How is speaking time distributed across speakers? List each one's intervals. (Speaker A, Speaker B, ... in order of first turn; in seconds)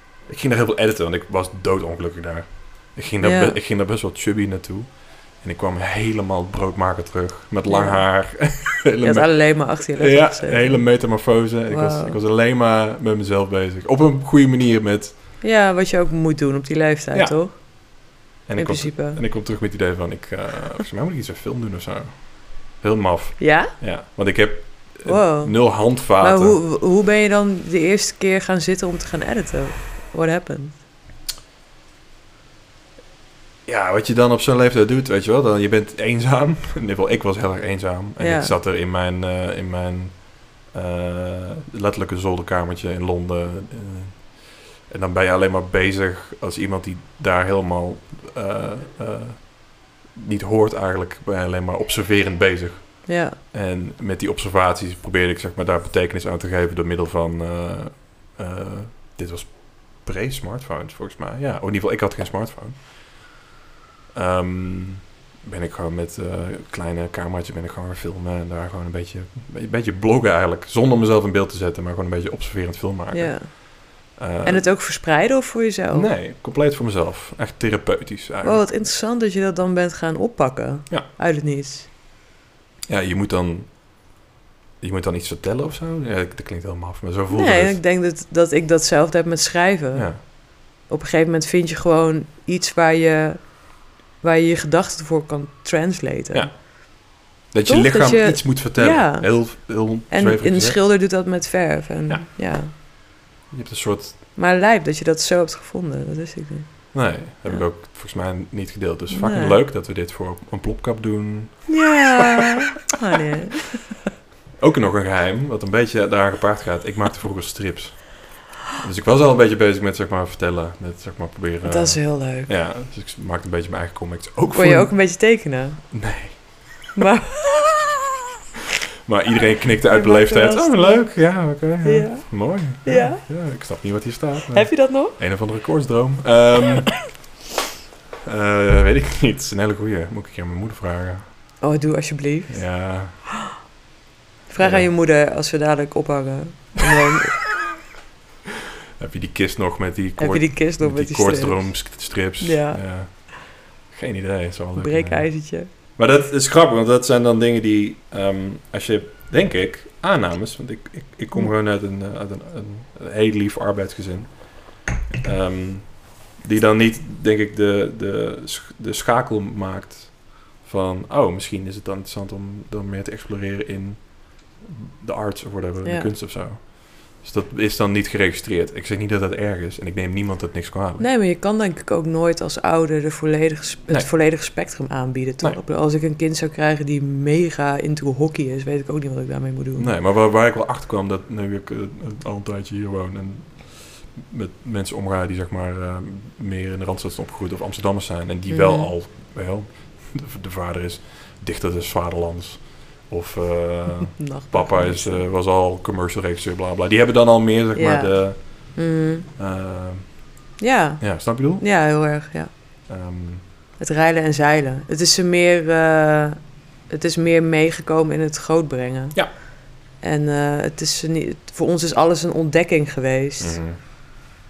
Speaker A: 0.3-15.2, 17.1-17.6, 18.4-26.6, 33.6-63.4, 64.1-73.6, 74.2-74.7, 75.9-78.6, 82.9-84.0, 84.8-87.8, 89.9-90.2, 96.3-100.9, 102.1-102.8, 103.5-104.2, 106.9-112.1, 114.6-125.3, 125.9-126.9, 129.0-137.2, 138.2-141.4, 142.5-143.2, 144.6-144.9, 149.0-181.1, 183.9-184.7, 189.8-210.4, 211.0-211.7, 212.9-213.5, 223.4-224.3
Speaker B: 3.2-3.6, 7.7-12.2, 15.4-19.2, 23.4-23.7, 25.0-30.7, 38.2-38.5, 53.0-53.4, 73.1-76.1, 78.4-81.9, 87.3-96.7, 97.7-102.7, 104.3-107.7, 109.1-109.6, 111.7-113.8, 121.6-122.5, 124.5-126.4, 126.9-127.7, 129.8-133.3, 134.5-135.2, 141.6-143.2, 144.5-147.4, 150.2-152.8, 154.8-155.7, 175.8-176.1, 181.0-189.9, 198.5-198.9, 204.2-205.2, 207.7-209.3, 210.6-212.5, 213.8-223.6